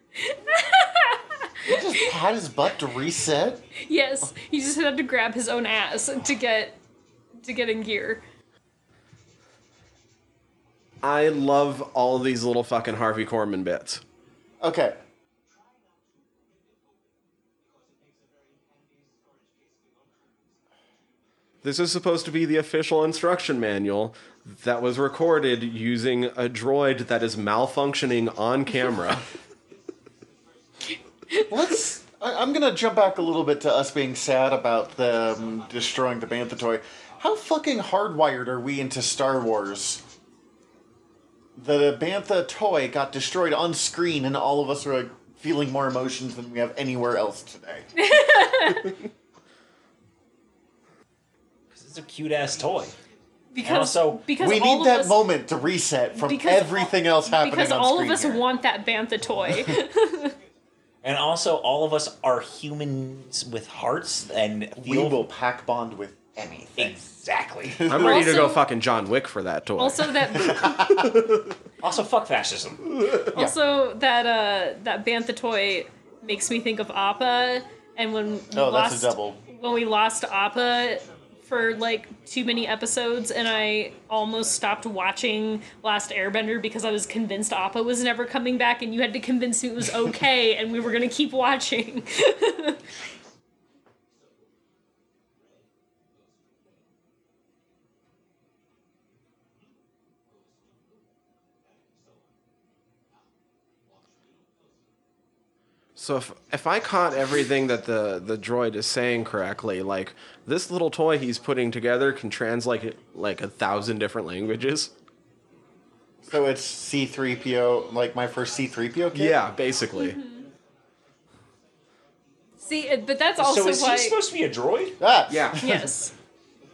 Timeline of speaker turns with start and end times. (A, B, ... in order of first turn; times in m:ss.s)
0:00.2-0:01.8 A
0:01.6-0:03.7 B
0:03.8-0:06.8 A
0:07.4-0:08.2 A
0:11.0-0:14.0 C
0:14.6-0:15.0 B
0:21.6-0:29.3 C
0:31.5-0:40.0 B
0:41.6-0:47.9 B
0:48.0-0:49.0 A
0:51.7-0:53.0 D
0:53.5-0:55.3 A
0:53.6-0:54.2 D
0:54.4-0:58.4 B
0:56.2-1:00.4 A
1:01.0-1:05.3 D
1:04.8-1:07.1 B
1:06.8-1:07.9 D
1:07.7-1:08.3 B
1:07.9-1:11.5 C
1:07.9-1:08.6 A
1:09.8-1:10.8 A
1:10.3-1:11.3 B
1:11.8-1:12.9 D
1:13.2-1:13.6 B
1:13.3-1:32.8 A
1:18.5-1:19.4 B
1:46.0-1:54.9 C
1:56.2-1:59.4 B
1:59.1-2:00.2 C
2:00.0-2:00.5 A
2:02.6-2:04.2 A
2:03.4-2:05.0 D
2:05.0-2:05.9 B
2:05.3-2:05.6 C
2:05.6-2:06.1 A